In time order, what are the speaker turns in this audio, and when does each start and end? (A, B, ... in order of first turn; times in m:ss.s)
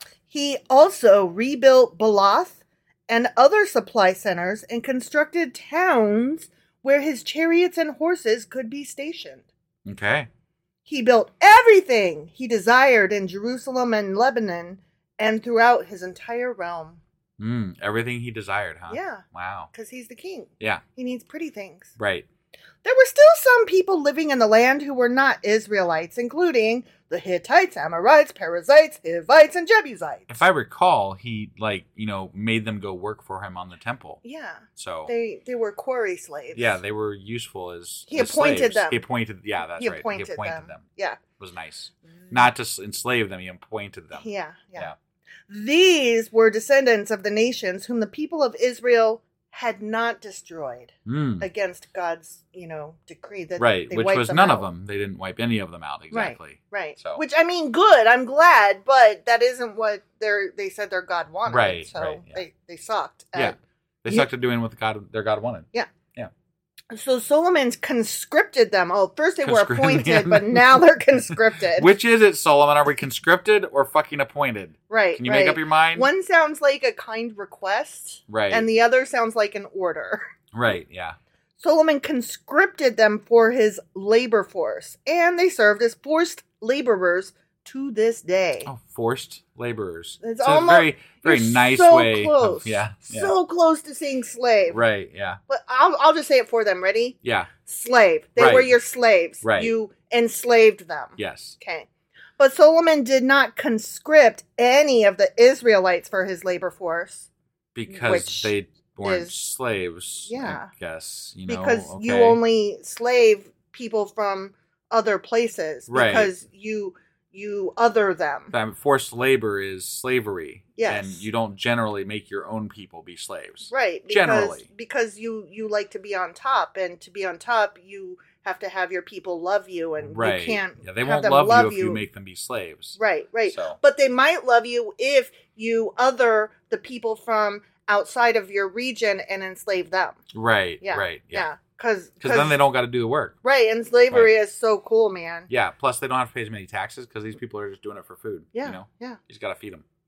0:00.3-0:09.4 A
0:09.9-0:10.3 B
0:10.9-0:17.0 A
0:17.4-0:19.7 B
0:18.9-0:21.9 A
0:22.0-0:22.3 B
0:22.8-0:30.4 A
0:30.3-0:34.2 B
0:34.2-0:36.8 A
0:34.8-0:35.1 B
0:36.5-0:40.9 B
0:38.1-0:39.0 A
0:39.6-0:41.2 A
0:41.4-0:45.0 B
0:44.1-0:44.9 A
0:45.5-0:54.7 A
0:51.1-0:51.5 B
0:53.6-0:57.2 B
0:56.1-1:04.3 A
1:01.5-1:02.4 B
1:03.4-1:06.3 B
1:06.9-1:11.9 A
1:09.4-1:10.8 B
1:11.8-1:16.1 B
1:14.9-1:20.3 A
1:18.3-1:18.7 B
1:20.5-1:21.2 B
1:21.6-1:28.7 A
1:28.7-1:33.3 B
1:30.2-1:34.8 A
1:34.7-1:35.4 B
1:35.5-1:41.9 A
1:37.2-1:37.5 B
1:38.4-1:38.7 B
1:39.4-1:39.7 B
1:41.2-1:41.6 B
1:42.4-1:47.3 A
1:47.8-1:52.4 B
1:47.9-1:49.4 A
1:50.3-1:50.7 A
1:51.5-1:58.5 A
1:55.9-1:56.3 B
1:58.5-2:04.7 B
2:00.8-2:01.2 A
2:03.7-2:12.0 A
2:10.0-2:13.8 B
2:13.0-2:20.2 A
2:20.3-2:21.5 B
2:20.8-2:22.6 A
2:22.2-2:23.4 B
2:23.4-2:25.5 A
2:25.5-2:29.8 B
2:28.6-2:29.2 A